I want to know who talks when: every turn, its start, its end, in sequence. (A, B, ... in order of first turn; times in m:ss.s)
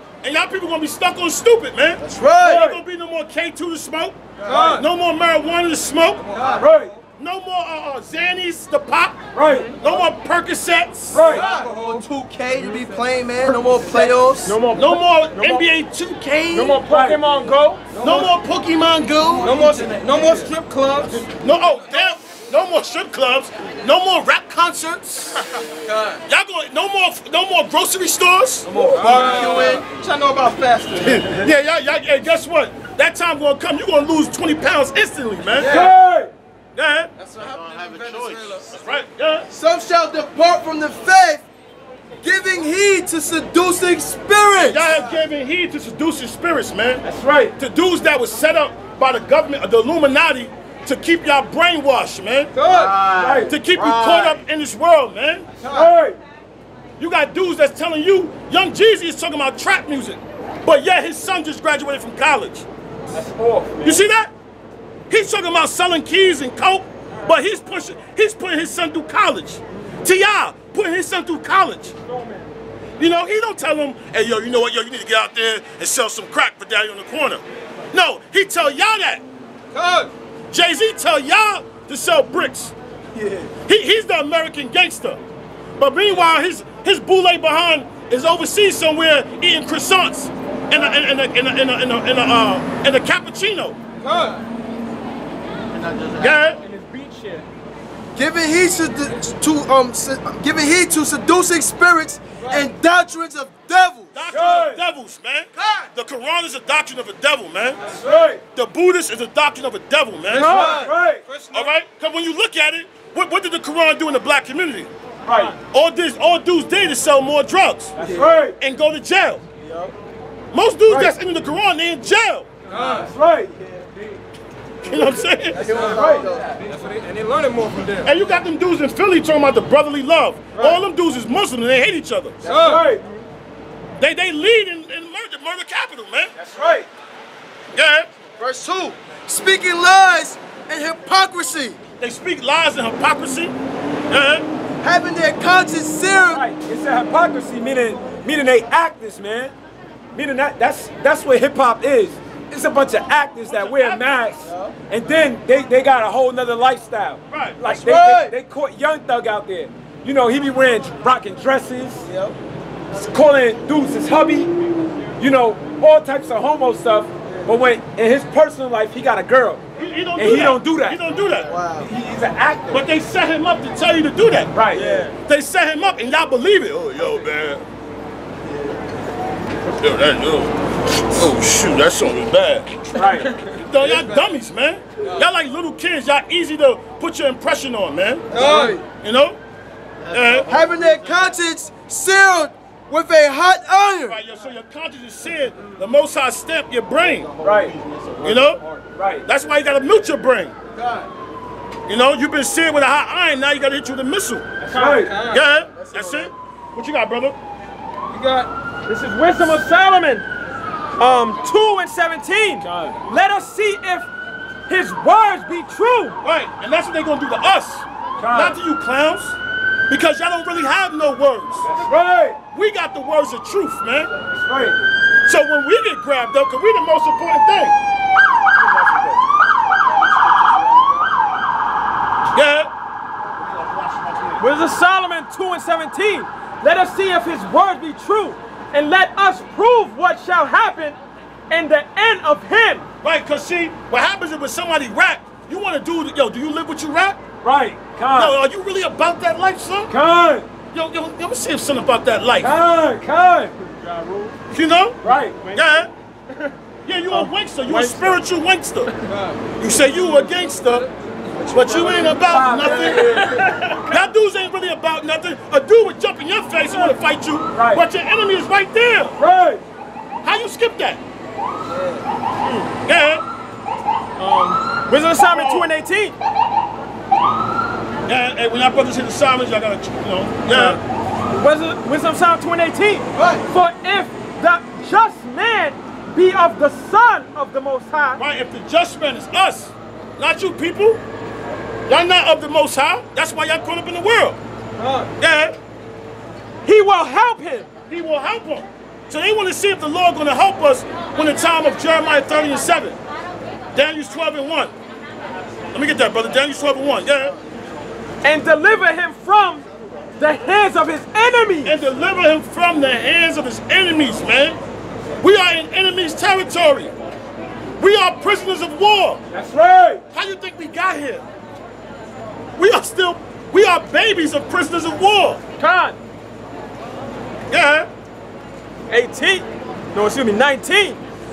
0:00.2-0:06.3 A
0:02.0-0:02.6 B
0:02.4-0:02.8 C
0:04.4-0:04.8 B
0:04.5-0:04.9 D
0:06.2-0:07.0 D
0:06.3-0:06.7 B
0:06.6-0:06.9 C
0:07.2-0:11.2 A
0:09.3-0:09.8 C
0:11.1-0:11.5 C
0:11.2-0:12.0 D
0:11.2-0:14.6 B
0:13.7-0:14.1 D
0:14.0-0:15.6 E
0:14.7-0:16.8 A
0:16.5-0:17.9 E
0:16.6-0:16.8 B
0:16.9-0:17.2 C
0:18.0-0:18.3 B
0:18.0-0:19.5 A
0:19.2-0:20.5 B
0:19.4-0:21.3 D
0:21.3-0:25.5 A
0:25.8-0:26.2 B
0:26.3-0:29.4 A
0:28.7-0:29.5 C
0:28.8-0:31.3 D
0:28.8-0:29.9 B
0:31.0-0:35.8 A
0:35.5-0:35.9 B
0:35.6-0:36.3 C
0:36.8-0:37.1 A
0:37.2-0:38.7 D
0:37.4-0:38.6 F
0:37.6-0:38.5 B
0:38.7-0:39.5 A
0:39.5-0:41.4 B
0:42.2-0:45.0 B
0:44.6-0:47.0 A
0:47.0-0:47.6 C
0:47.6-0:52.5 A
0:52.5-0:53.0 D
0:52.6-0:54.4 B
0:53.2-0:53.6 C
0:53.4-0:55.5 A
0:55.6-0:55.9 B
0:55.6-0:56.2 C
0:57.0-1:02.7 A
1:03.1-1:04.0 C
1:03.8-1:04.3 A
1:05.1-1:12.0 A
1:12.0-1:12.5 E
1:13.0-1:19.2 A
1:19.7-1:20.1 D
1:20.5-1:22.7 A
1:23.2-1:23.5 C
1:23.6-1:25.2 A
1:25.8-1:33.8 A
1:34.0-1:34.4 D
1:35.8-1:36.3 F
1:36.2-1:36.6 A
1:36.6-1:37.5 E
1:38.2-1:44.3 B
1:42.4-1:42.7 D
1:44.1-1:47.9 A
1:44.3-1:44.8 C
1:45.6-1:45.9 B
1:47.9-1:48.4 C
1:48.5-1:50.6 A
1:50.3-1:51.2 C
1:50.4-1:50.8 E
1:50.4-1:50.9 B
1:50.5-1:51.7 D
1:51.5-1:54.9 A
1:55.3-1:55.6 C
1:55.7-1:58.0 A
1:58.0-1:58.6 C
1:58.0-1:58.4 B
1:58.6-1:59.4 A
1:59.6-1:59.9 B
2:00.5-2:02.6 A
2:02.7-2:03.1 D
2:02.7-2:03.5 C
2:04.8-2:05.7 A
2:05.5-2:06.6 B
2:05.6-2:08.1 D
2:05.8-2:06.3 C
2:08.0-2:12.4 A
2:10.5-2:10.8 D
2:12.4-2:13.2 D
2:12.4-2:13.0 C
2:14.0-2:16.3 A
2:16.4-2:16.9 C
2:17.7-2:18.1 A
2:18.4-2:21.8 B
2:22.0-2:23.6 A
2:24.1-2:24.5 A
2:24.8-2:26.5 B
2:26.2-2:29.5 C
2:30.1-2:42.1 C
2:33.5-2:34.3 A
2:34.5-2:34.8 B
2:37.3-2:37.6 A
2:37.7-2:38.4 B
2:42.1-2:42.4 B
2:43.0-2:44.5 C
2:45.2-2:49.6 C
2:49.8-2:51.5 A
2:50.2-2:51.0 C
2:51.4-2:51.9 B
2:51.8-2:52.9 C
2:52.7-2:54.5 A
2:54.5-2:54.8 C
2:54.7-2:55.1 B
2:55.2-2:57.6 A
2:58.4-2:58.8 B
2:59.8-3:09.4 A
3:03.0-3:03.4 C
3:03.5-3:04.1 D
3:08.3-3:08.8 D
3:08.4-3:08.7 B
3:08.4-3:08.7 C
3:10.1-3:11.2 F
3:10.1-3:10.6 A
3:10.5-3:14.2 B
3:14.0-3:17.3 A
3:17.2-3:18.3 F
3:17.4-3:17.8 C
3:18.2-3:18.6 A
3:18.5-3:18.8 D
3:19.0-3:19.2 C
3:19.2-3:20.6 A
3:20.8-3:21.1 B
3:21.9-3:24.5 A
3:24.6-3:25.2 C
3:24.7-3:25.0 E
3:24.7-3:25.5 D
3:25.3-3:27.4 A
3:25.4-3:26.3 B
3:28.1-3:28.5 D
3:28.9-3:30.3 E
3:31.0-3:34.1 E
3:32.6-3:33.0 C
3:34.7-3:36.2 E
3:36.2-3:39.4 A
3:38.2-3:38.6 C
3:39.9-3:41.7 A
3:41.6-3:42.4 C
3:42.5-3:44.1 A
3:44.3-3:44.9 C
3:45.3-3:47.8 A
3:49.9-3:51.1 B
3:52.3-3:52.7 A
3:54.4-4:01.0 E
4:01.5-4:02.9 E
4:03.0-4:07.2 A
4:07.4-4:08.4 C
4:08.2-4:09.9 A
4:09.9-4:10.5 C
4:10.7-4:12.6 A
4:12.4-4:13.6 C
4:13.6-4:14.3 E
4:14.5-4:15.0 A
4:15.0-4:15.4 C
4:15.4-4:16.6 E
4:15.5-4:15.9 A
4:16.9-4:18.9 A
4:17.6-4:18.2 E
4:19.1-4:19.5 D
4:19.6-4:20.9 A
4:20.6-4:21.4 D
4:21.4-4:22.2 B
4:21.5-4:23.4 A
4:22.0-4:23.5 C
4:22.5-4:24.0 E
4:23.9-4:29.2 A
4:27.5-4:27.8 C
4:29.2-4:29.6 C
4:30.2-4:31.0 A
4:31.7-4:32.0 B
4:32.4-4:32.7 E
4:32.9-4:33.2 A
4:34.2-4:36.2 E
4:35.2-4:35.7 A
4:38.1-4:40.8 A
4:40.5-4:40.8 E
4:41.3-4:48.2 E
4:43.2-4:43.4 B
4:48.2-4:51.0 A
4:51.9-4:54.4 A
4:54.8-4:55.1 D
4:55.2-4:55.6 A
4:56.6-4:57.7 E
4:57.9-5:03.0 A
5:03.7-5:04.7 A
5:05.7-5:07.4 A
5:08.2-5:09.7 E
5:10.2-5:11.8 E
5:11.6-5:14.6 A
5:15.2-5:16.9 A
5:17.8-5:19.2 A
5:19.3-5:20.0 C
5:20.1-5:21.2 A
5:22.6-5:25.4 A
5:25.6-5:26.0 E
5:27.5-5:27.9 A
5:28.9-5:31.0 E